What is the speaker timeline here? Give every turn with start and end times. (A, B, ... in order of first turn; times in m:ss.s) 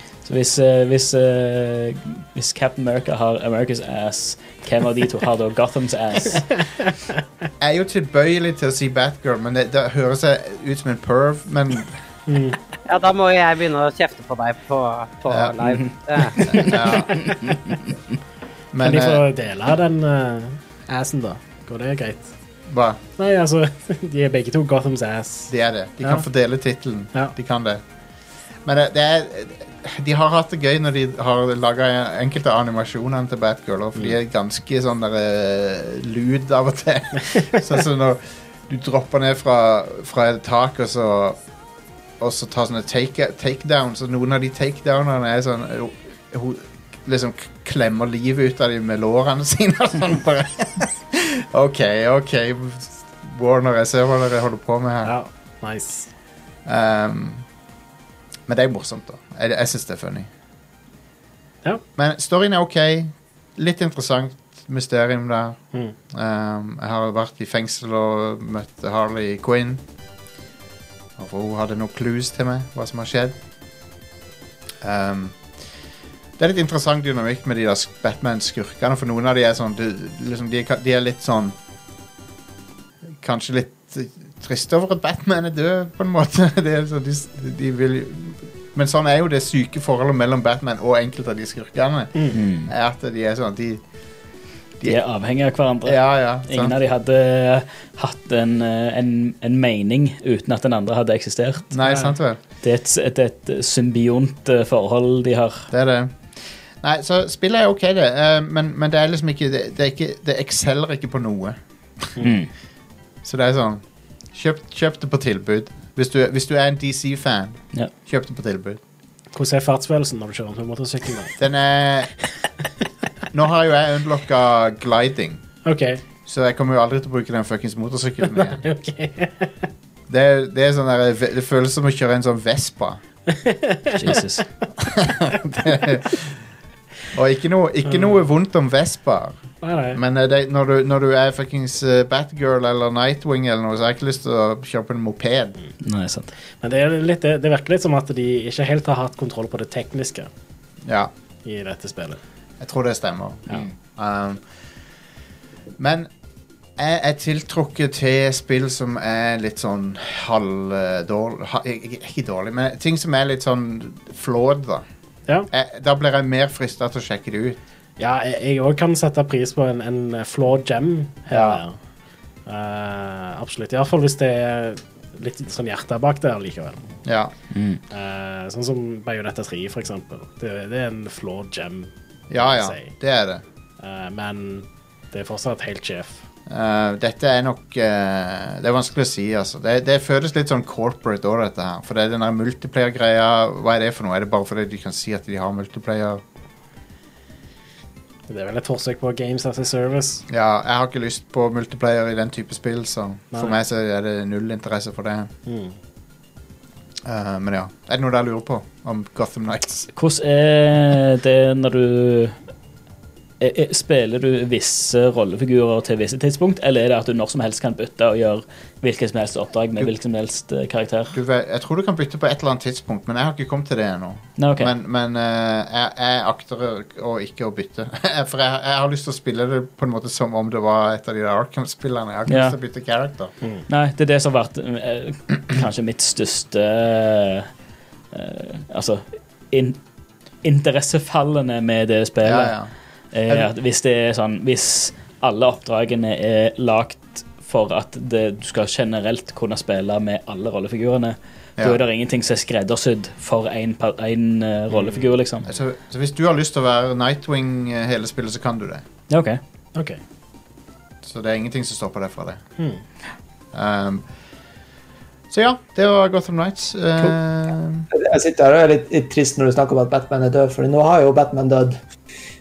0:00.2-0:06.7 A
0:06.8-0:07.1 B
0:07.6-0:12.0 C
0:12.3-0:12.6 B
0:12.9-0:16.7 D
0:15.3-0:15.8 C
0:16.4-0:17.3 C
0:17.2-0:17.7 A
0:18.7-0:19.2 C
0:18.8-0:22.3 B
0:22.7-0:23.0 C
0:23.2-0:25.5 B
0:25.5-0:27.8 C
0:28.6-0:41.4 C
0:42.2-0:55.1 C
0:55.0-0:56.1 B
0:56.6-0:57.4 C
0:58.5-1:00.3 C
1:02.0-1:09.8 C
1:11.2-1:13.4 C
1:14.8-1:15.4 C
1:16.4-1:21.6 C
1:23.2-1:33.8 C
1:32.3-1:32.7 A
1:34.8-1:41.7 A
1:35.8-1:36.7 C
1:41.7-1:42.4 C
1:41.8-1:42.1 B
1:42.6-1:45.7 A
1:45.7-1:46.1 C
1:46.8-1:51.6 C
1:52.2-1:52.5 A
1:53.2-1:58.8 C
1:59.3-2:01.3 B
2:01.4-2:02.1 C
2:03.3-2:05.4 C
2:05.6-2:06.0 B
2:06.2-2:08.6 C
2:08.4-2:09.5 B
2:10.1-2:13.0 C
2:13.3-2:14.4 B
2:13.9-2:14.4 A
2:14.8-2:16.3 C
2:17.1-2:19.4 C
2:19.6-2:20.0 B
2:19.9-2:25.6 C
2:25.8-2:26.3 A
2:26.6-2:30.3 B
2:30.8-2:31.1 C
2:31.4-2:32.2 B
2:32.6-2:34.4 C
2:35.8-2:36.1 C
2:36.8-2:44.8 C
2:45.5-2:47.6 C
2:48.0-2:51.8 B
2:51.3-2:51.6 C
2:52.4-2:56.8 B
2:57.0-2:57.3 C
2:57.5-2:57.8 A
2:57.9-3:02.9 B
3:02.3-3:03.4 C
3:03.8-3:06.2 B
3:06.5-3:16.2 C
3:18.3-3:20.2 B
3:20.3-3:25.3 C
3:25.5-3:25.8 B
3:27.0-3:29.9 C
3:29.9-3:32.4 A
3:33.4-3:41.1 A
3:41.1-3:53.3 C
3:44.4-3:44.7 A
3:52.3-3:52.6 A
3:53.7-3:57.5 A
3:58.1-3:59.8 A
4:00.4-4:02.5 A
4:02.2-4:02.7 C
4:03.1-4:15.5 A
4:15.4-4:18.8 C
4:19.1-4:19.4 A
4:21.0-4:22.4 C
4:23.5-4:24.0 C
4:25.3-4:27.9 C
4:27.9-4:31.8 E